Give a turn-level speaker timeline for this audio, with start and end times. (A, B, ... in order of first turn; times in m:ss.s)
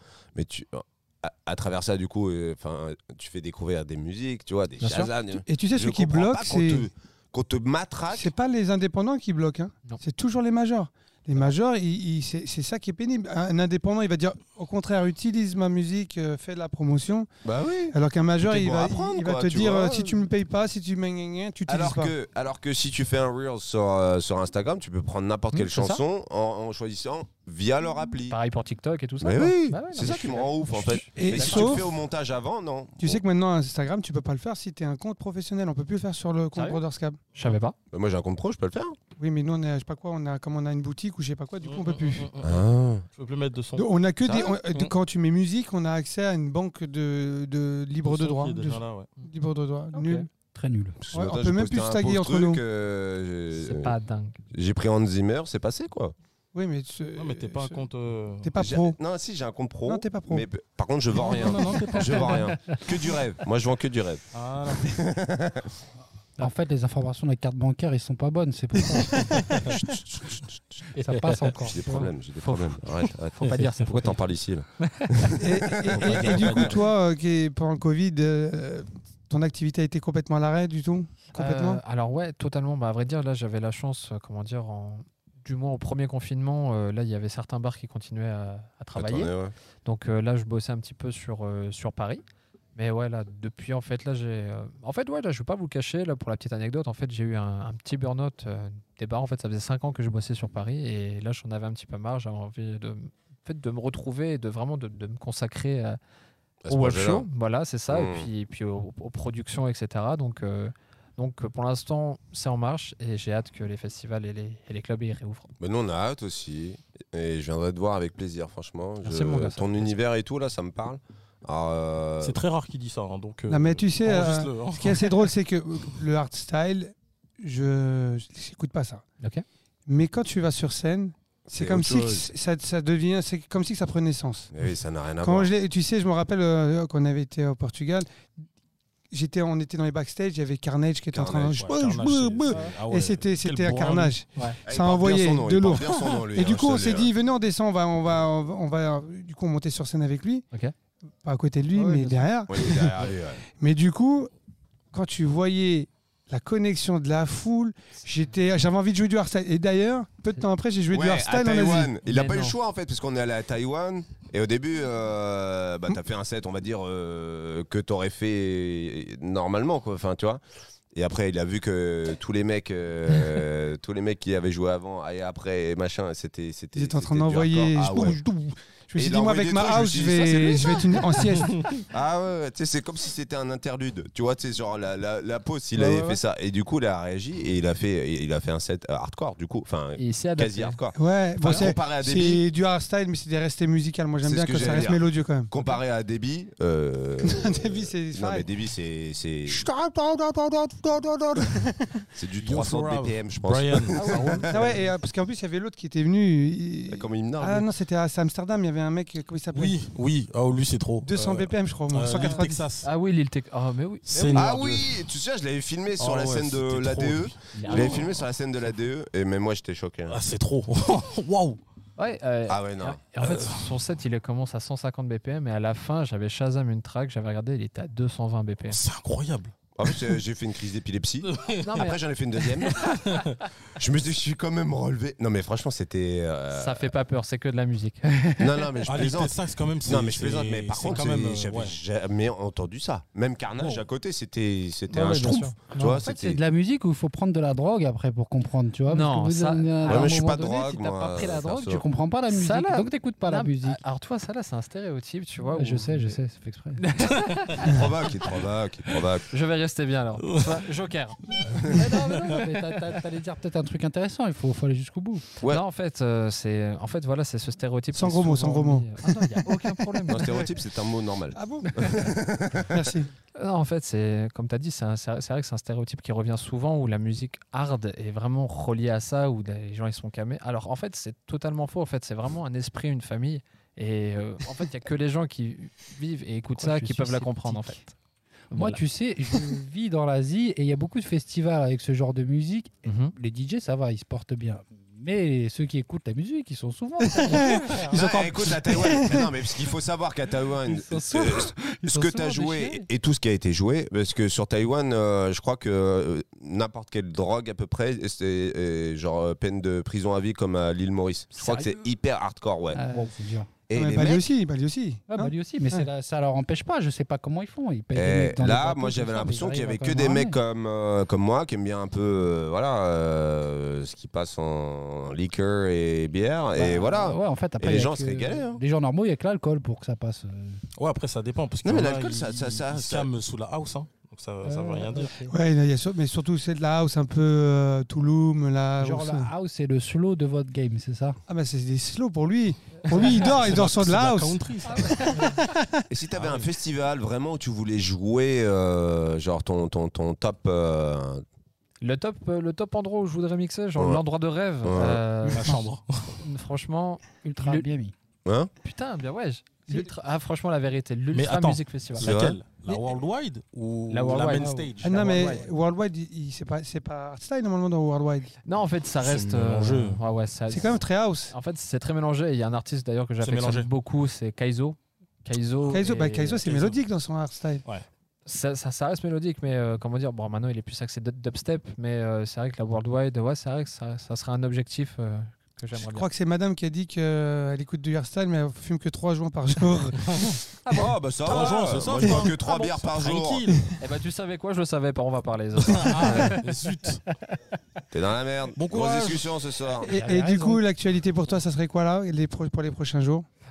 0:00.4-0:08.3 A
0:04.8-0:05.1 B
0:05.3-0:06.9 C
0:08.1-0:17.3 C
0:17.4-0:18.0 A
0:17.9-0:22.1 C
0:18.5-0:20.2 A
0:21.7-0:28.4 A
0:25.5-0:26.0 B
0:28.3-0:31.9 B
0:29.2-0:33.2 A
0:31.2-0:31.8 C
0:33.0-0:37.2 C
0:36.6-0:36.8 B
0:37.4-0:37.8 B
0:37.9-0:39.0 A
0:39.2-0:42.3 C
0:41.6-0:43.9 D
0:42.4-0:43.0 A
0:43.8-0:50.3 C
0:44.2-0:44.6 A
0:48.0-0:49.1 D
0:49.9-0:50.3 B
0:50.5-0:51.0 E
0:51.0-0:54.0 A
0:51.1-0:52.6 C
0:53.6-0:54.4 B
0:54.5-0:56.1 A
0:56.5-0:57.8 C
0:57.2-0:58.6 D
0:58.4-0:59.0 C
0:58.6-1:05.7 A
0:59.8-1:00.5 C
1:01.1-1:02.8 D
1:04.3-1:05.0 D
1:06.4-1:09.6 E
1:08.9-1:09.7 C
1:09.7-1:10.8 A
1:11.0-1:12.1 E
1:11.1-1:11.4 D
1:11.5-1:16.7 A
1:12.4-1:12.8 B
1:13.3-1:14.2 B
1:14.8-1:15.3 B
1:15.4-1:21.8 C
1:16.1-1:16.7 D
1:21.4-1:29.3 B
1:29.0-1:29.6 A
1:29.8-1:32.2 B
1:32.8-1:46.0 B
1:46.6-1:47.3 A
1:46.7-1:55.5 B
1:47.9-1:48.3 A
1:55.6-2:02.4 A
1:59.0-1:59.9 B
2:02.2-2:05.3 D
2:03.5-2:09.0 C
2:09.9-2:14.5 C
2:11.5-2:12.3 A
2:14.5-2:15.5 A
2:15.2-2:18.1 C
2:19.1-2:30.4 C
2:21.1-2:21.6 A
2:21.6-2:24.2 D
2:24.7-2:27.1 A
2:31.2-2:34.3 C
2:31.8-2:32.2 B
2:32.5-2:33.4 A
2:34.9-2:42.0 C
2:40.9-2:50.4 A
2:42.0-2:42.6 B
2:50.9-2:58.2 A
2:56.7-3:01.6 C
2:59.0-3:00.9 A
3:01.9-3:12.4 A
3:05.8-3:06.2 B
3:10.0-3:10.8 B
3:11.0-3:15.5 C
3:14.2-3:19.7 A
3:17.2-3:18.5 C
3:19.5-3:22.1 C
3:22.2-3:24.7 A
3:22.4-3:24.0 D
3:24.0-3:24.5 B
3:24.5-3:29.8 C
3:26.9-3:27.7 A
3:29.5-3:32.9 D
3:31.0-3:32.6 C
3:32.2-3:34.5 B
3:34.1-3:35.0 D
3:34.3-3:40.2 A
3:36.0-3:38.3 D
3:37.5-3:38.1 B
3:40.1-3:41.6 D
3:42.0-3:48.8 B
3:42.5-3:43.0 A
3:43.2-3:43.7 D
3:48.7-3:50.0 D
3:49.8-3:53.2 A
3:51.2-3:51.7 D
3:51.6-3:52.0 B
3:52.6-3:53.4 D
3:53.8-3:56.9 A
3:56.5-3:58.3 B
3:58.4-3:59.3 A
3:58.9-4:01.8 D
3:59.8-4:06.4 A
4:04.9-4:06.0 B
4:05.7-4:13.8 E
4:08.9-4:10.2 B
4:09.8-4:11.8 A
4:12.3-4:16.2 B
4:15.5-4:16.8 E
4:16.8-4:17.8 B
4:17.6-4:19.3 A
4:19.3-4:22.4 B
4:21.7-4:25.3 E
4:25.5-4:30.4 B
4:27.9-4:29.4 C
4:30.1-4:32.9 A
4:31.3-4:32.0 C
4:32.7-4:33.1 C
4:33.4-4:47.9 B
4:46.6-4:47.8 E
4:48.5-4:59.0 E
4:48.5-4:48.8 B
4:52.8-4:53.1 B
4:57.1-4:59.3 C
4:57.9-5:12.8 A
5:00.7-5:02.2 E
5:00.8-5:02.8 B
5:11.4-5:11.8 B
5:12.7-5:13.5 E
5:13.7-5:14.3 A
5:13.7-5:15.9 C
5:15.1-5:20.4 E
5:17.9-5:28.6 A
5:26.6-5:30.6 E
5:30.8-5:35.1 D
5:31.6-5:33.1 A
5:34.4-5:35.4 E
5:35.3-5:39.3 C
5:38.8-5:41.2 E
5:41.3-5:45.8 C
5:42.9-5:45.4 D
5:45.9-5:51.2 A
5:46.2-5:46.5 D
5:51.8-5:55.6 B
5:54.6-5:55.0 A
5:55.3-5:56.2 D
5:56.2-5:57.7 B
5:57.2-5:57.9 E
5:58.2-5:58.5 A
5:58.6-6:02.1 B
6:01.1-6:05.4 D
6:02.0-6:02.4 A
6:03.9-6:05.4 B
6:04.4-6:08.3 C
6:08.4-6:16.4 B
6:09.0-6:10.0 D
6:10.5-6:11.3 C
6:13.2-6:13.7 D
6:15.7-6:17.6 C
6:16.4-6:16.8 D
6:18.3-6:26.1 B
6:25.7-6:30.4 C
6:30.7-6:33.6 A
6:31.2-6:33.6 D
6:33.8-6:36.4 B
6:35.7-6:37.0 D
6:37.9-6:39.9 A
6:38.6-6:39.3 D
6:39.8-6:43.3 C
6:40.0-6:40.6 B